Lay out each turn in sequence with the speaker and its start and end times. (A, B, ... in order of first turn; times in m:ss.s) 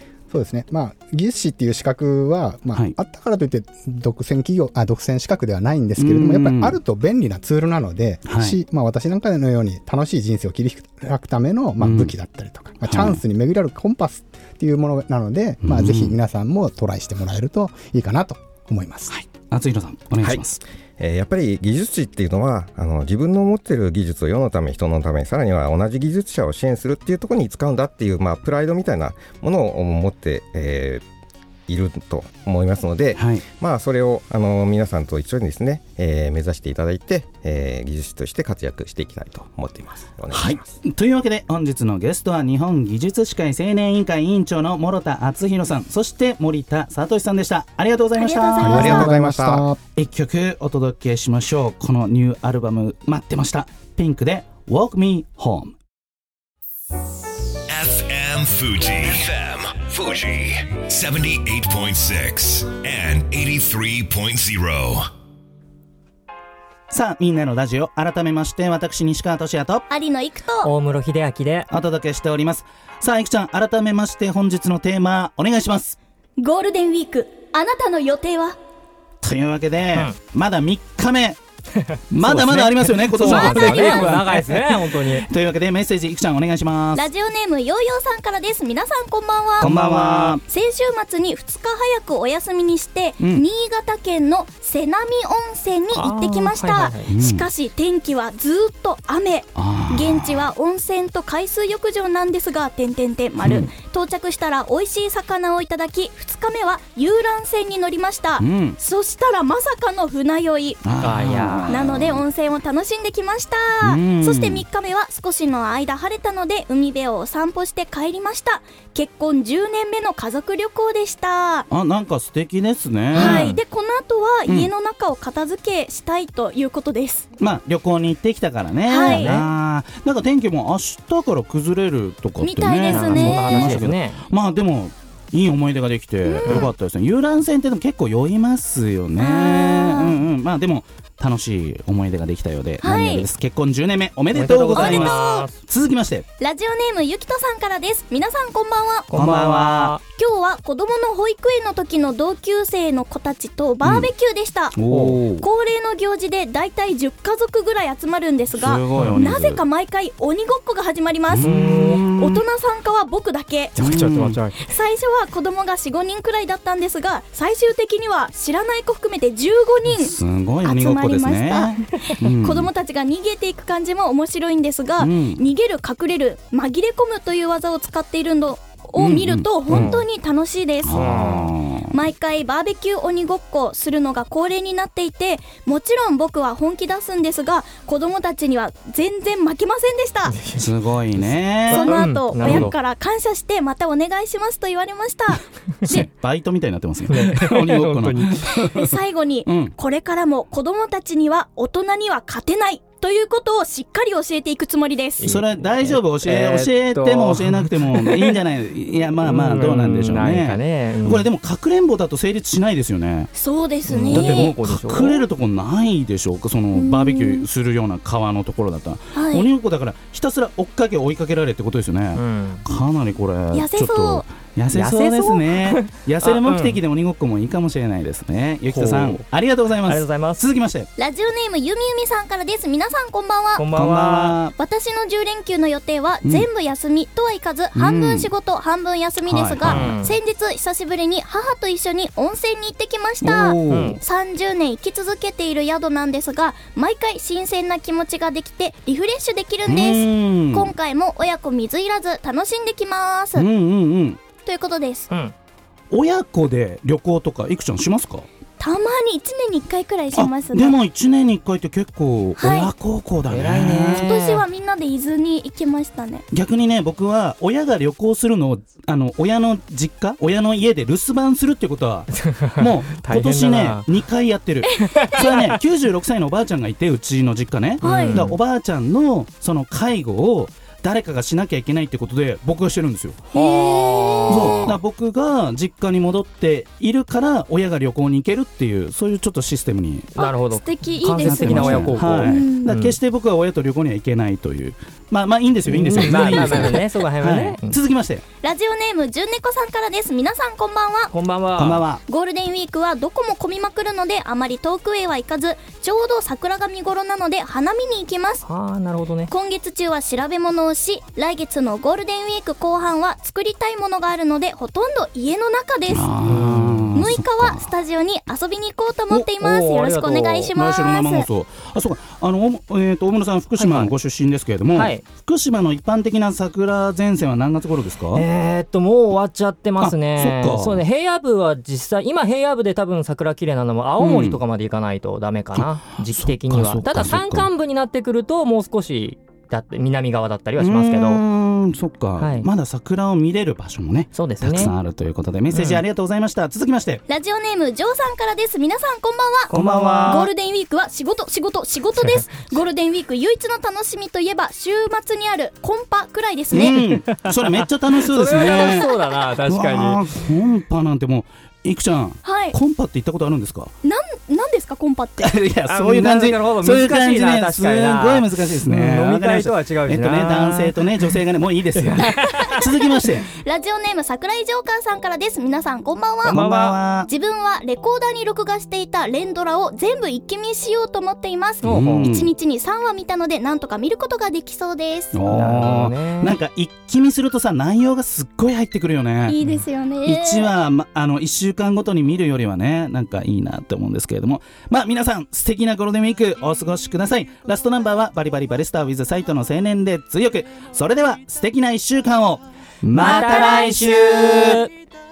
0:00.3-0:19.1 A
0:06.0-0:06.8 B
0:08.3-0:08.6 B
0:11.8-0:12.1 B
0:12.8-0:13.2 B
0:15.6-0:16.1 B
0:19.1-0:20.6 B
0:21.0-0:31.0 C
0:31.7-0:40.7 C
0:33.1-0:33.4 B
0:40.3-0:49.1 B
0:48.2-0:49.1 D
0:48.6-0:49.8 A
0:48.6-0:49.7 C
0:50.0-0:55.7 B
0:57.7-1:05.1 E
1:06.9-1:09.8 B
1:09.9-1:10.7 D
1:10.6-1:11.7 F
1:11.7-1:16.0 B
1:16.4-1:18.6 D
1:19.2-1:21.4 B
1:21.8-1:25.3 F
1:22.1-1:27.0 B
1:23.2-1:24.0 D
1:26.9-1:29.8 D
1:29.6-1:30.4 B
1:29.6-1:30.3 F
1:30.3-1:50.8 D
1:33.2-1:33.4 B
1:35.9-1:37.1 F
1:37.1-1:37.5 B
1:39.6-1:40.5 B
1:43.4-1:43.7 B
1:48.4-1:48.8 B
1:50.8-1:52.2 B
1:51.0-1:51.8 F
1:51.7-2:01.6 D
1:53.8-1:54.6 B
2:01.7-2:03.5 B
2:03.1-2:03.6 F
2:03.1-2:07.3 D
2:07.4-2:26.2 B
2:08.8-2:09.4 D
2:09.0-2:09.5 F
2:12.4-2:13.8 D
2:12.9-2:14.2 F
2:16.2-2:16.7 D
2:19.2-2:20.2 D
2:22.8-2:23.3 D
2:24.3-2:25.5 F
2:24.7-2:25.5 D
2:26.4-2:29.1 D
2:29.1-2:30.0 F
2:29.1-2:30.0 B
2:30.0-2:41.6 D
2:33.8-2:34.1 B
2:34.7-2:35.5 B
2:34.9-2:35.2 F
2:38.5-2:39.6 B
2:41.3-2:42.4 B
2:41.4-2:42.0 F
2:42.1-2:43.7 D
2:43.8-2:44.6 F
2:43.8-2:44.4 B
2:44.6-3:01.1 D
2:49.9-2:52.7 B
2:55.0-2:55.4 B
2:59.0-3:00.0 B
2:59.7-3:00.0 F
3:00.8-3:01.9 B
3:00.9-3:01.5 F
3:01.9-3:10.4 D
3:10.3-3:12.7 F
3:10.6-3:12.7 B
3:11.7-3:16.1 D
3:15.9-3:19.7 B
3:17.1-3:18.5 F
3:18.7-3:25.2 D
3:25.2-3:28.4 F
3:25.2-3:33.3 B
3:29.2-3:31.3 F
3:33.3-3:34.5 D
3:33.9-3:35.2 F
3:34.0-3:50.9 B
3:36.7-3:37.4 D
3:39.1-3:39.5 D
3:42.1-3:42.6 F
3:43.5-3:44.2 D
3:44.7-3:46.8 F
3:48.7-3:49.2 F
3:49.8-3:50.4 F
3:51.0-3:53.6 D
3:53.6-3:54.4 F
3:53.7-3:54.5 B
3:54.5-4:13.5 D
3:57.7-3:58.3 B
3:59.2-3:59.9 B
3:59.6-4:00.2 F
4:03.2-4:04.0 B
4:03.7-4:04.0 F
4:09.7-4:10.7 B
4:13.3-4:14.2 B
4:14.4-4:15.1 D
4:15.9-4:18.3 B
4:18.6-4:20.8 D
4:20.1-4:24.1 B
4:22.4-4:22.7 D
4:23.3-4:24.4 F
4:23.9-4:26.2 D
4:26.3-4:43.2 B
4:32.2-4:33.8 F
4:34.6-4:35.6 D
4:34.9-4:35.3 F
4:37.8-4:38.3 D
4:37.8-4:38.4 F
4:43.3-4:44.7 D
4:43.3-4:44.8 F
4:44.3-4:50.1 B
4:50.2-4:52.8 D
4:50.2-4:52.9 F
4:51.2-4:58.2 B
4:55.7-4:57.8 F
4:58.4-5:01.1 D
5:01.1-5:01.8 F
5:01.6-5:02.0 B
5:02.0-5:08.4 D
5:08.4-5:09.3 F
5:09.3-5:16.1 D
5:15.9-5:17.7 B
5:16.2-5:17.0 F
5:16.9-5:21.2 D
5:19.4-5:20.5 F
5:20.5-5:28.2 B
5:23.6-5:23.9 F
5:24.7-5:25.0 F
5:28.1-5:41.2 F
5:29.8-5:30.8 B
5:34.0-5:34.4 B
5:35.5-5:37.5 B
5:40.6-5:47.0 B
5:42.2-5:42.5 F
5:44.1-5:44.7 F
5:45.5-5:45.8 F
5:47.1-5:49.5 D
5:49.5-5:50.3 F
5:49.5-5:50.3 B
5:50.0-5:56.9 D
5:56.5-5:58.9 B
5:56.7-6:00.0 F
5:58.3-5:58.9 D
5:59.4-6:03.7 B
6:02.2-6:02.6 D
6:03.8-6:05.4 D
6:05.2-6:13.3 B
6:05.6-6:10.8 F
6:11.8-6:12.6 F
6:12.5-6:16.4 D
6:16.2-6:17.1 B
6:16.3-6:16.8 F
6:17.1-6:25.2 D
6:21.6-6:22.1 F
6:21.6-6:22.3 B
6:25.1-6:29.4 B
6:25.2-6:26.4 F
6:29.2-6:30.5 D
6:30.0-6:44.6 B
6:42.9-6:44.7 F
6:43.0-6:44.0 D